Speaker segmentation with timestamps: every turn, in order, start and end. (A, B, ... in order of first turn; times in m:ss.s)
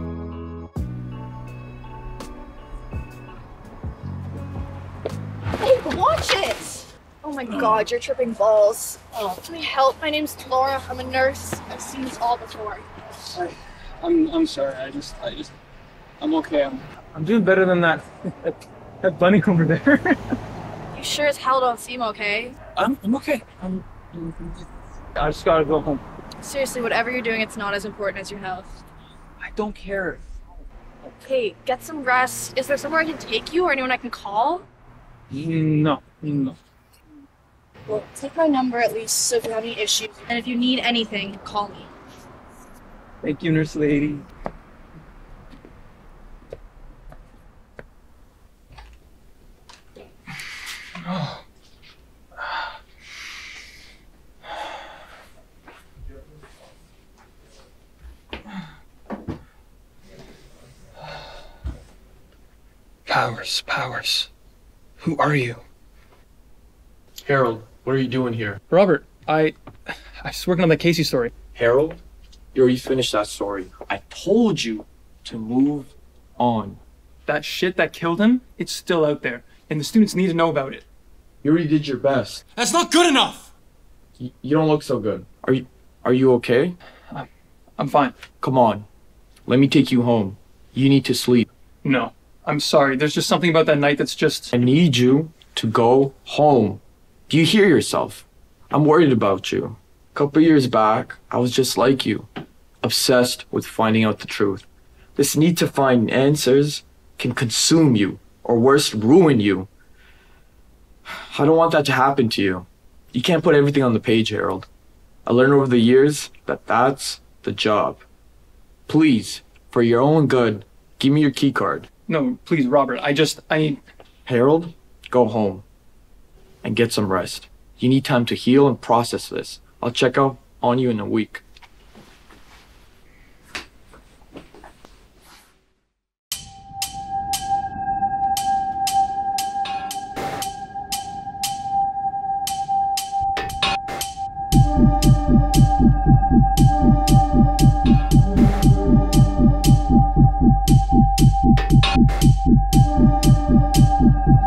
0:05.6-0:12.9 A
0:13.3-0:15.5 B
0:16.2-0:20.2 B
0:20.9-0:22.6 A
0:22.8-0:24.6 B
0:25.2-0:26.0 B
0:26.4-0:28.7 A
0:29.4-0:30.2 B
0:31.2-0:34.6 A
0:35.3-0:36.6 B
0:37.9-0:41.9 A
0:43.2-0:44.2 B
0:51.0-0:51.4 B
1:03.1-1:04.3 B
1:05.0-1:05.6 B
1:07.2-1:08.6 C
1:08.7-1:11.3 B
1:11.5-1:12.0 C
1:12.5-1:16.8 C
1:17.3-1:20.8 B
1:21.4-1:22.4 C
1:22.6-1:23.5 B
1:24.2-1:26.8 C
1:27.1-1:28.1 B
1:28.4-1:28.9 C
1:29.5-1:31.5 C
1:31.8-1:34.5 B
1:34.5-1:42.3 C
1:42.8-1:49.7 C
1:51.1-1:54.7 C
1:55.2-1:58.0 C
1:58.9-2:01.9 C
2:02.1-2:03.8 B
2:04.2-2:05.6 C
2:06.6-2:11.4 C